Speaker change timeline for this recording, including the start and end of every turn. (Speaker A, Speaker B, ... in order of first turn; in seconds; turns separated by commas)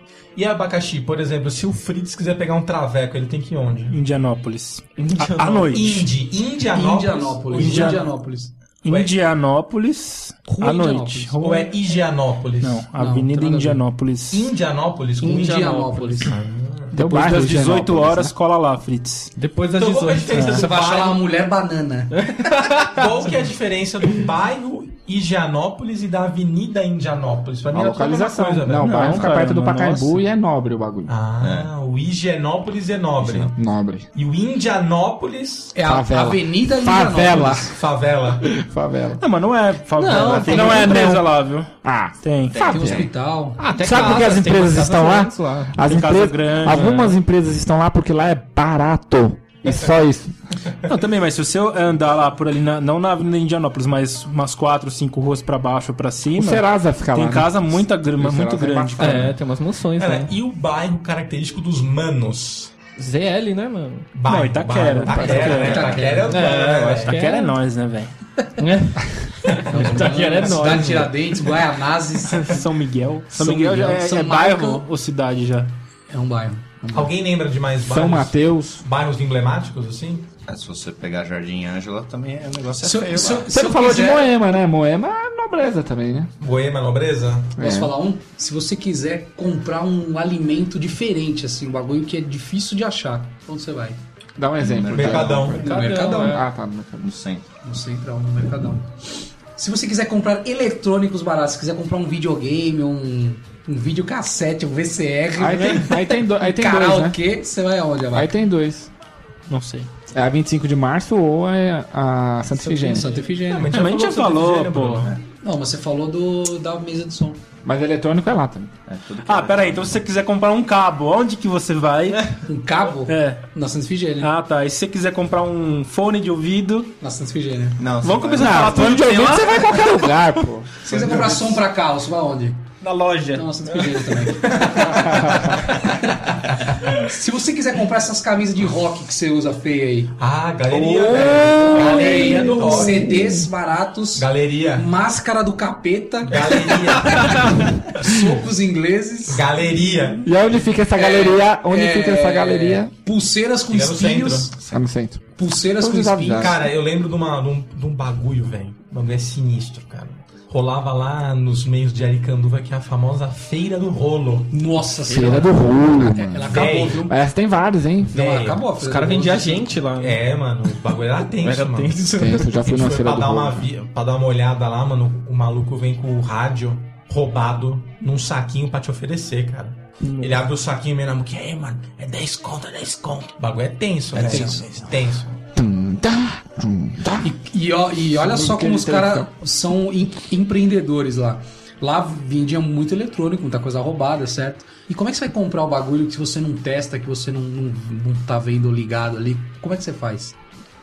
Speaker A: 0.3-4.0, Speaker B: 3.9-6.1, Speaker C: 5.0-6.0, Speaker A: 5.7-8.1, Speaker D: 6.7-8.5, Speaker B: 7.6-8.0, Speaker B: 8.8-11.7, Speaker A: 8.9-9.2, Speaker D: 10.5-11.3, Speaker A: 11.4-12.8, Speaker B: 12.6-14.5, Speaker D: 12.9-13.8, Speaker A: 14.3-16.9, Speaker D: 15.2-16.3, Speaker E: 16.9-18.3, Speaker B: 16.9-19.3, Speaker C: 19.3-20.6, Speaker A: 19.7-21.2, Speaker D: 20.5-22.5, Speaker C: 22.2-22.8, Speaker A: 22.8-29.3, Speaker E: 27.7-31.1, Speaker B: 28.8-30.2, Speaker A: 31.1-33.5, Speaker F: 31.4-31.7, Speaker F: 33.2-33.5, Speaker E: 33.5-34.1, Speaker A: 34.1-35.7, Speaker D: 35.7-37.7, Speaker E: 35.8-37.8, Speaker A: 37.7-38.5, Speaker E: 38.4-39.2, Speaker B: 39.2-41.7, Speaker C: 39.9-41.2, Speaker E: 40.4-41.2, Speaker E: 41.8-43.1, Speaker B: 42.2-42.6, Speaker F: 42.5-43.1, Speaker D: 42.7-43.6, Speaker C: 43.6-45.8, Speaker E: 43.8-50.3, Speaker B: 45.8-47.2, Speaker B: 50.8-59.4, Speaker E: 56.3-59.4, Speaker C: 59.0-60.4, Speaker A: 60.0-62.7, Speaker C: 63.0-64.1, Speaker A: 64.1-67.2, Speaker B: 64.2-66.0, Speaker E: 65.0-65.7, Speaker D: 65.3-66.3, Speaker C: 66.3-67.6, Speaker B: 67.0-68.4, Speaker C: 68.6-69.0, Speaker A: 69.4-69.8, Speaker D: 69.7-72.6, Speaker C: 69.7-71.5, Speaker B: 72.3-75.7, Speaker D: 73.3-74.8, Speaker D: 76.1-77.1, Speaker A: 76.9-80.3, Speaker E: 77.8-78.8, Speaker F: 80.5-83.5, Speaker D: 82.8-84.3, Speaker E: 83.5-86.3, Speaker A: 86.4-87.5, Speaker E: 87.6-87.9, Speaker D: 87.6-94.0, Speaker E: 94.4-97.1, Speaker F: 94.6-95.6, Speaker A: 94.9-95.7, Speaker D: 95.5-96.4, Speaker C: 95.6-96.5, Speaker F: 97.0-97.5, Speaker D: 97.6-98.9, Speaker D: 99.5-108.3, Speaker E: 105.4-107.2, Speaker E: 108.1-108.9, Speaker B: 109.5-109.9, Speaker E: 110.1-113.1, Speaker D: 112.6-113.7, Speaker A: 113.4-115.2, Speaker B: 113.7-115.1, Speaker D: 115.4-117.4, Speaker E: 117.6-118.7, Speaker F: 118.9-120.0, Speaker B: 119.2-122.5, Speaker D: 122.4-124.3, Speaker B: 123.0-123.4, Speaker B: 124.2-126.9, Speaker D: 127.0-127.8, Speaker F: 127.8-128.9, Speaker B: 128.0-129.8, Speaker E: 128.3-130.7, Speaker D: 130.8-132.7, Speaker F: 130.9-131.6, Speaker B: 132.8-133.9, Speaker D: 133.3-140.2, Speaker A: 134.5-134.8, Speaker E: 134.7-135.6, Speaker A: 140.2-143.4, Speaker E: 140.7-142.7, Speaker D: 141.6-149.4, Speaker A: 144.2-144.9, Speaker A: 146.2-148.4, Speaker A: 149.3-150.2, Speaker E: 150.2-152.9, Speaker D: 150.9-154.5, Speaker A: 153.7-154.8, Speaker E: 154.7-155.2, Speaker D: 155.4-156.6, Speaker E: 155.8-156.6, Speaker A: 156.4-164.5, Speaker D: 164.5-167.2, Speaker E: 165.1-168.2, Speaker A: 166.5-167.0, Speaker D: 168.1-169.3, Speaker A: 168.1-185.4, Speaker C: 168.8-170.2, Speaker C: 171.4-172.6, Speaker E: 172.2-173.7, Speaker D: 184.1-184.7, Speaker E: 185.5-187.3, Speaker D: 187.2-200.4, Speaker E: 188.2-189.2